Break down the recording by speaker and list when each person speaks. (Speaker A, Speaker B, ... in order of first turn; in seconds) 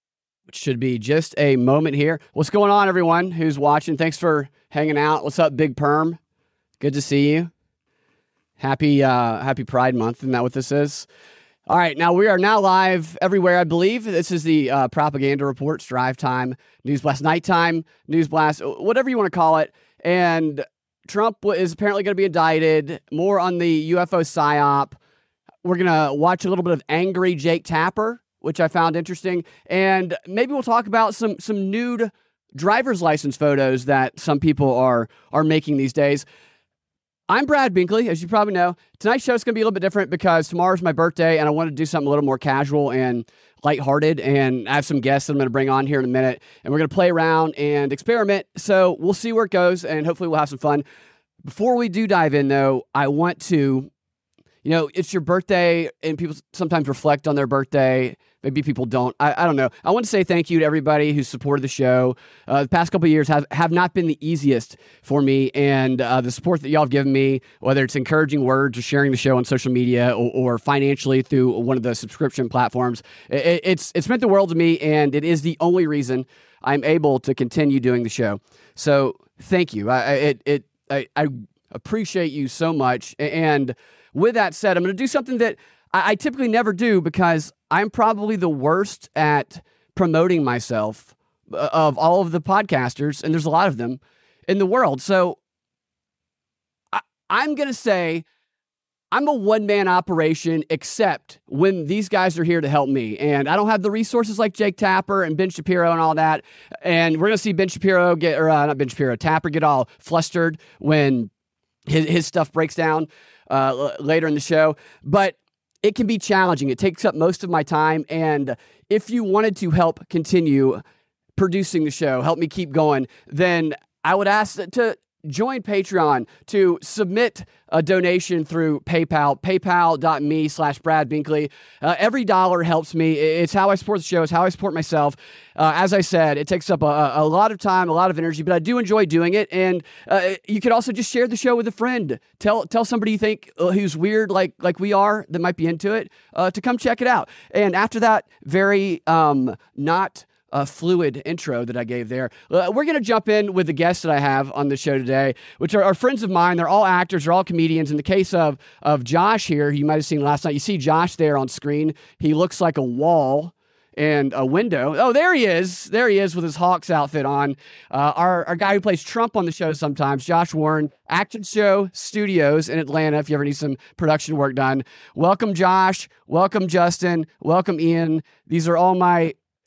Speaker A: 0.5-6.2, 6.8-7.5, 8.6-11.1, 11.7-25.0, 25.6-36.3, 37.3-50.9, 51.4-53.9, 54.6-95.4, 96.9-98.2, 99.1-111.3, 111.9-120.8, 121.4-179.3